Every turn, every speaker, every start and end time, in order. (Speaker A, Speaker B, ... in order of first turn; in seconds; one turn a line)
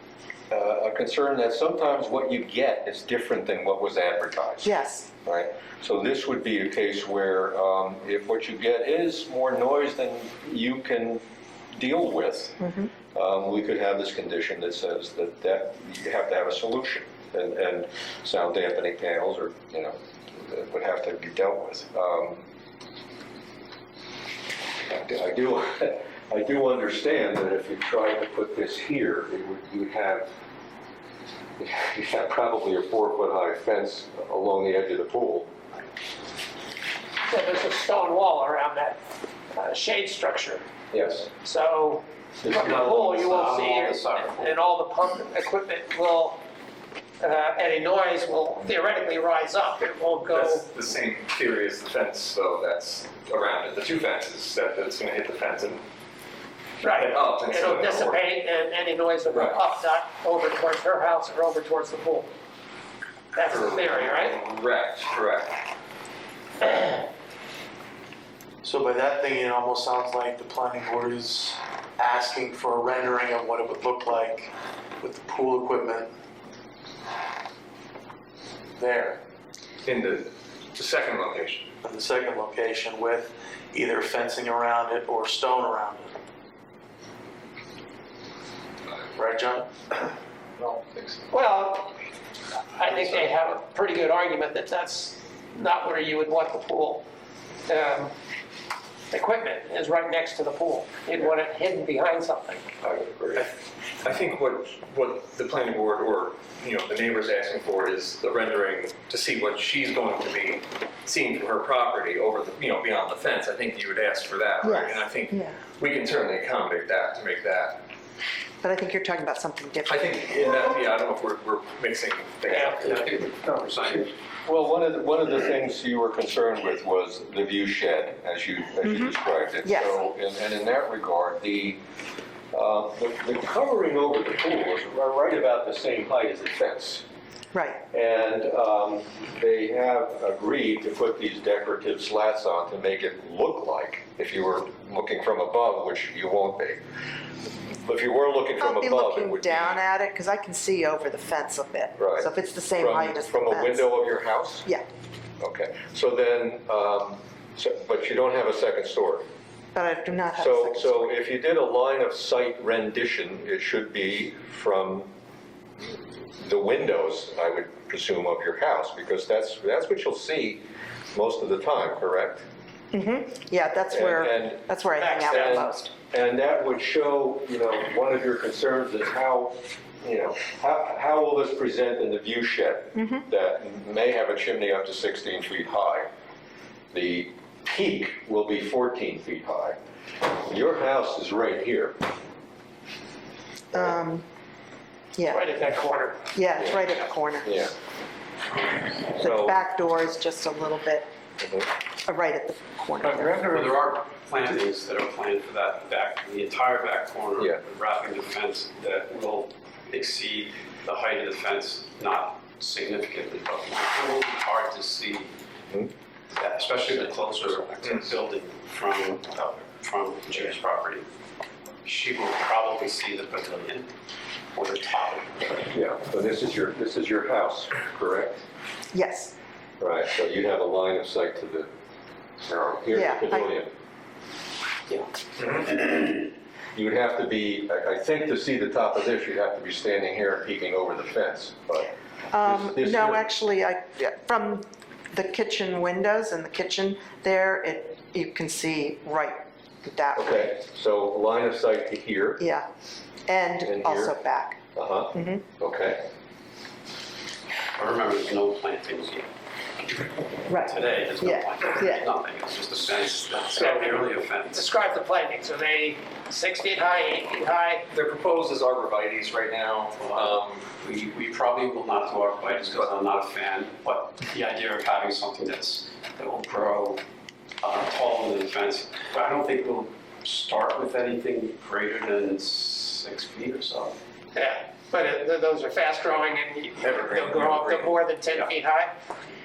Speaker A: 0.5-4.7
Speaker B: 4.6-5.1
Speaker A: 5.2-12.6
Speaker B: 12.6-12.9
Speaker A: 13.1-22.4
Speaker A: 24.8-30.3
Speaker A: 31.6-35.5
Speaker C: 37.3-39.0
Speaker C: 39.5-40.6
Speaker A: 40.9-41.3
Speaker C: 41.3-46.4
Speaker D: 42.5-44.6
Speaker C: 47.2-50.7
Speaker E: 50.2-55.8
Speaker C: 56.8-62.3
Speaker E: 56.8-58.2
Speaker E: 59.3-59.6
Speaker C: 63.3-64.4
Speaker E: 63.5-65.6
Speaker F: 68.6-76.1
Speaker F: 78.8-79.2
Speaker E: 79.8-81.7
Speaker F: 81.8-86.1
Speaker F: 89.2-89.7
Speaker C: 91.3-92.0
Speaker C: 92.8-97.0
Speaker C: 97.7-98.1
Speaker C: 99.1-102.7
Speaker A: 102.8-103.5
Speaker E: 103.4-117.8
Speaker B: 114.6-115.6
Speaker B: 118.6-120.2
Speaker E: 119.9-123.1
Speaker D: 122.8-124.1
Speaker A: 124.5-131.8
Speaker B: 128.8-129.1
Speaker B: 129.6-129.9
Speaker A: 132.5-137.0
Speaker B: 137.5-137.8
Speaker A: 137.9-146.8
Speaker A: 147.8-149.8
Speaker B: 148.6-153.9
Speaker A: 152.0-154.7
Speaker A: 155.4-159.3
Speaker B: 159.7-161.1
Speaker A: 160.4-165.1
Speaker A: 166.4-172.4
Speaker B: 172.9-175.9
Speaker A: 173.9-186.1
Speaker C: 175.0-175.6
Speaker B: 183.0-183.2
Speaker A: 186.9-189.8
Speaker A: 190.4-192.0
Speaker B: 193.7-194.2
Speaker B: 195.2-195.5
Speaker C: 195.3-196.2
Speaker B: 196.3-197.6
Speaker A: 197.4-197.8
Speaker B: 199.2-201.1
Speaker A: 199.2-199.6
Speaker A: 201.4-201.7
Speaker B: 202.1-203.6
Speaker D: 203.5-215.3
Speaker D: 216.3-221.1
Speaker D: 221.8-223.9
Speaker D: 224.5-225.7
Speaker A: 225.7-228.4
Speaker B: 228.9-229.3
Speaker A: 229.8-231.7
Speaker A: 232.4-233.7
Speaker B: 232.9-233.5
Speaker A: 236.7-243.3
Speaker B: 242.3-250.5
Speaker A: 250.2-252.4
Speaker B: 252.4-252.7
Speaker B: 253.3-254.6
Speaker A: 253.7-254.2
Speaker A: 254.8-256.0
Speaker B: 255.1-255.4
Speaker D: 257.8-264.8
Speaker B: 260.5-262.1
Speaker C: 263.5-267.9
Speaker E: 267.9-270.7
Speaker D: 270.0-277.0
Speaker E: 272.5-272.9
Speaker D: 277.6-284.0
Speaker C: 284.3-288.9
Speaker D: 286.8-288.5